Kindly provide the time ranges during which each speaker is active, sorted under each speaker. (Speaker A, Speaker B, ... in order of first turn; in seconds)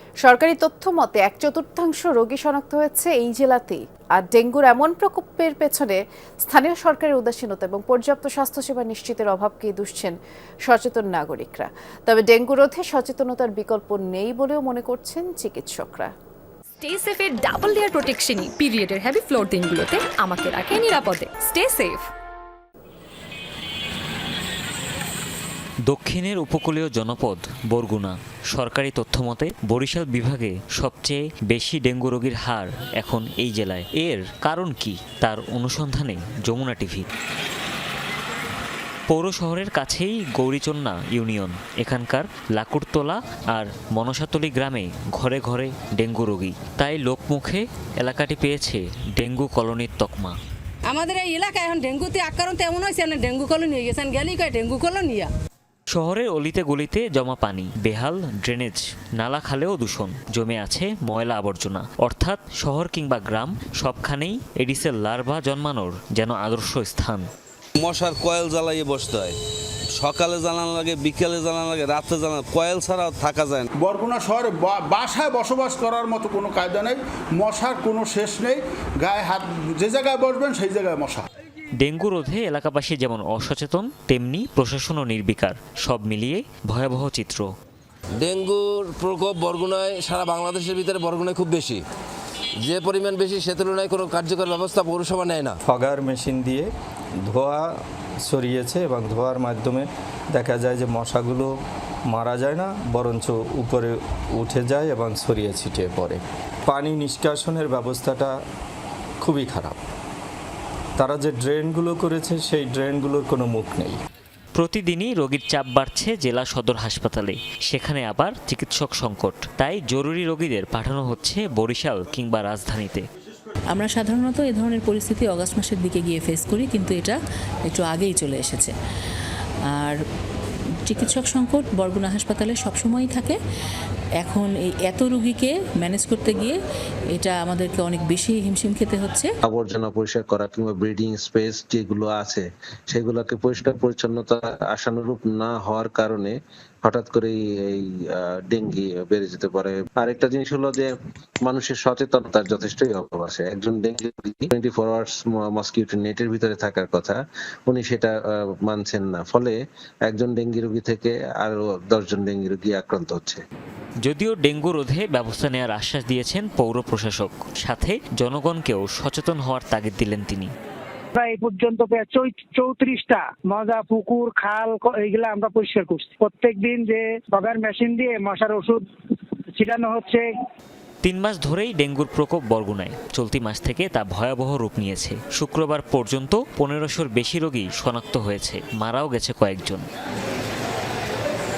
Speaker A: 0.2-10.2, 10.7-16.1
Speaker B: 16.8-22.1
Speaker C: 25.9-37.1, 39.1-50.4, 55.9-67.3, 81.8-87.5, 114.6-123.0, 164.0-170.5, 181.0-189.8
Speaker D: 50.9-55.3
Speaker E: 67.8-69.3, 70.0-73.7
Speaker F: 73.9-78.5, 79.1-81.2
Speaker G: 88.2-91.8, 92.6-95.6
Speaker H: 95.7-96.7, 97.3-101.5, 102.1-108.4, 109.2-109.8, 111.0-114.0
Speaker I: 123.7-127.2, 127.7-128.7, 130.9-133.4, 134.2-136.6, 137.2-139.3
Speaker J: 139.4-150.9, 151.4-163.4
Speaker K: 171.2-178.8, 179.6-180.2